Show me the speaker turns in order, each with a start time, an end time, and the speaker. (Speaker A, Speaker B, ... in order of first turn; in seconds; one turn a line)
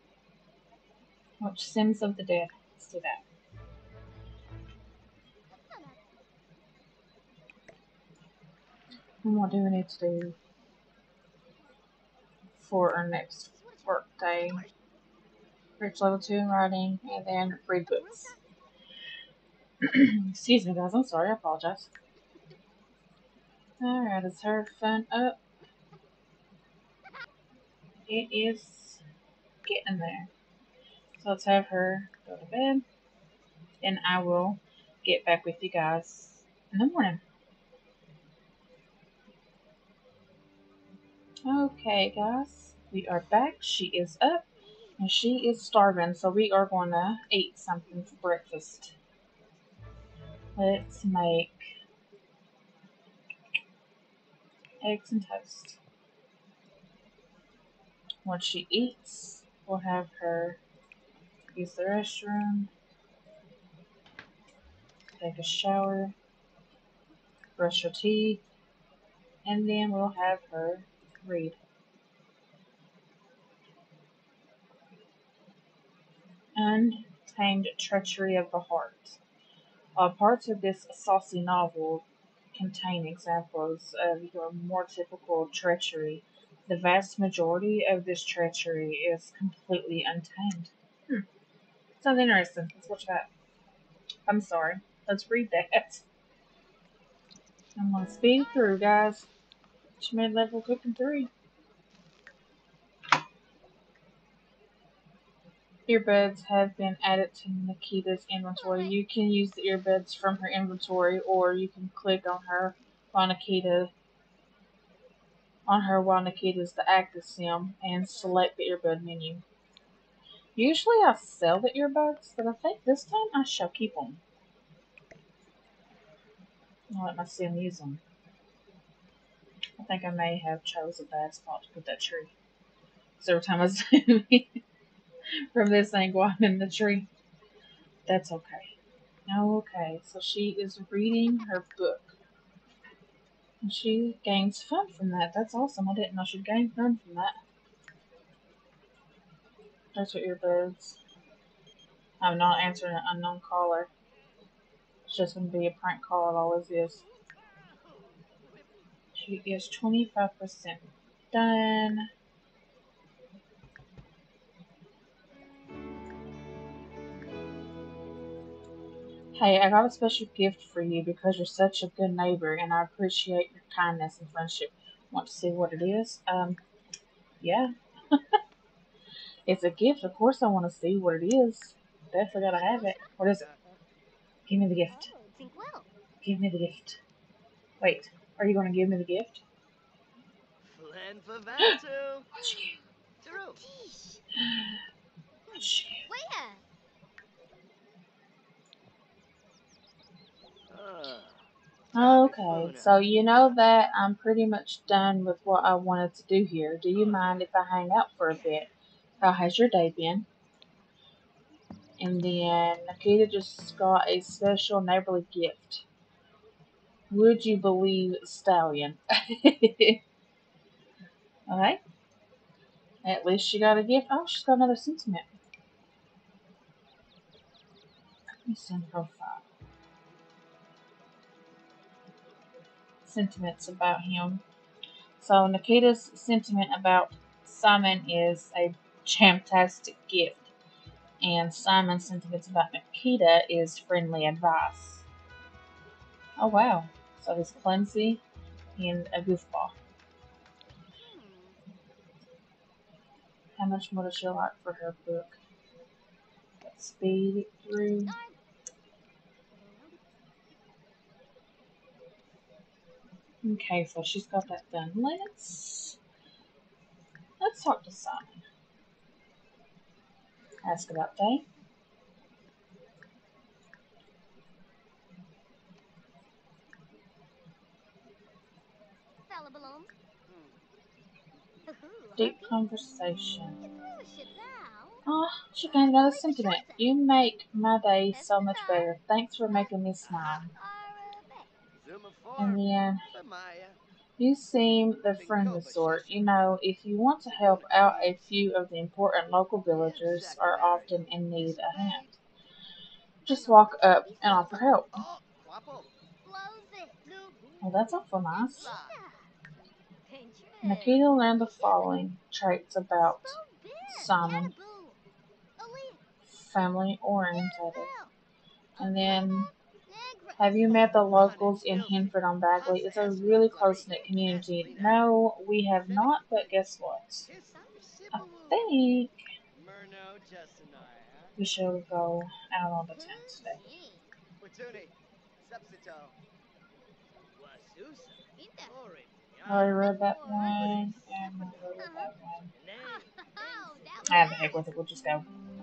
Speaker A: 1.4-3.2
Speaker B: 5.5-6.0
Speaker A: 9.2-10.3
Speaker A: 12.6-14.6
Speaker B: 13.5-14.2
Speaker A: 15.8-18.4
Speaker B: 17.9-18.4
Speaker A: 19.8-21.9
Speaker A: 23.8-25.4
Speaker A: 28.1-29.0
Speaker A: 29.6-30.3
Speaker A: 31.2-32.8
Speaker A: 33.8-37.2
Speaker A: 41.5-44.5
Speaker A: 45.0-48.9
Speaker A: 50.5-51.7
Speaker A: 54.8-55.8
Speaker A: 58.2-60.6
Speaker A: 61.5-62.7
Speaker A: 65.2-66.1
Speaker A: 67.6-68.4
Speaker A: 69.4-71.6
Speaker A: 76.5-79.2
Speaker A: 80.0-91.2
Speaker A: 92.0-93.3
Speaker A: 94.3-96.0
Speaker A: 97.8-99.3
Speaker A: 100.0-101.3
Speaker A: 105.9-113.9
Speaker B: 108.6-109.0
Speaker A: 115.7-119.4
Speaker A: 120.5-124.2
Speaker A: 126.9-128.0
Speaker A: 129.8-132.3
Speaker A: 133.2-134.6
Speaker A: 135.5-137.1
Speaker A: 138.1-138.7
Speaker A: 139.2-142.1
Speaker A: 143.6-147.3
Speaker A: 149.9-151.0
Speaker A: 152.2-153.9
Speaker A: 155.1-157.0
Speaker C: 157.0-158.8
Speaker A: 159.2-162.1
Speaker A: 169.3-176.6
Speaker A: 177.4-178.2
Speaker A: 179.4-183.4
Speaker B: 182.5-183.1
Speaker C: 183.4-183.8
Speaker A: 184.5-185.1
Speaker B: 184.9-185.9
Speaker A: 186.2-187.0
Speaker A: 187.8-189.4
Speaker C: 190.6-192.3
Speaker B: 192.4-194.2
Speaker C: 193.2-193.6
Speaker A: 194.4-194.7
Speaker B: 195.5-196.6
Speaker A: 195.5-196.1
Speaker C: 200.7-203.5
Speaker A: 201.9-208.7
Speaker A: 209.2-210.2
Speaker A: 212.0-215.8
Speaker A: 217.1-220.0
Speaker A: 221.5-221.8
Speaker A: 223.0-225.2
Speaker A: 228.4-229.4
Speaker A: 233.0-234.4
Speaker A: 235.2-240.5
Speaker A: 241.2-245.0
Speaker A: 246.4-248.2
Speaker A: 248.8-249.7
Speaker B: 251.0-251.6
Speaker A: 253.6-255.3
Speaker A: 256.6-258.2
Speaker B: 258.0-258.4
Speaker B: 259.5-260.0
Speaker A: 263.4-266.0
Speaker A: 267.4-268.4
Speaker A: 270.6-271.4
Speaker B: 279.3-279.9
Speaker C: 280.2-280.6
Speaker B: 281.6-282.6
Speaker A: 282.2-283.6
Speaker B: 283.6-285.1
Speaker A: 285.0-290.5
Speaker B: 285.7-286.9
Speaker B: 288.1-288.9
Speaker C: 290.0-290.4
Speaker B: 290.5-291.5
Speaker C: 291.7-293.8
Speaker A: 292.4-293.0
Speaker A: 294.2-302.0
Speaker C: 295.1-296.4
Speaker C: 297.2-298.4
Speaker C: 299.7-302.2
Speaker A: 303.2-304.9
Speaker B: 303.3-304.7
Speaker C: 304.9-305.9
Speaker B: 306.2-307.1
Speaker C: 307.1-309.0
Speaker A: 307.6-308.7
Speaker B: 308.4-309.3
Speaker B: 310.1-311.9
Speaker A: 310.6-314.5
Speaker B: 313.0-315.0
Speaker B: 315.6-316.0
Speaker A: 316.2-317.9
Speaker B: 317.4-318.1
Speaker B: 318.8-321.0
Speaker A: 318.8-319.5
Speaker A: 320.4-327.3
Speaker C: 320.7-325.1
Speaker C: 325.8-326.6
Speaker C: 327.2-328.7
Speaker A: 328.1-329.2
Speaker C: 329.5-331.4
Speaker A: 331.4-333.6
Speaker B: 332.9-334.1
Speaker C: 334.4-336.1
Speaker C: 337.3-344.5
Speaker B: 338.4-338.7
Speaker A: 339.4-342.5
Speaker B: 339.6-341.1
Speaker B: 341.8-342.1
Speaker B: 342.8-344.8
Speaker A: 344.0-345.3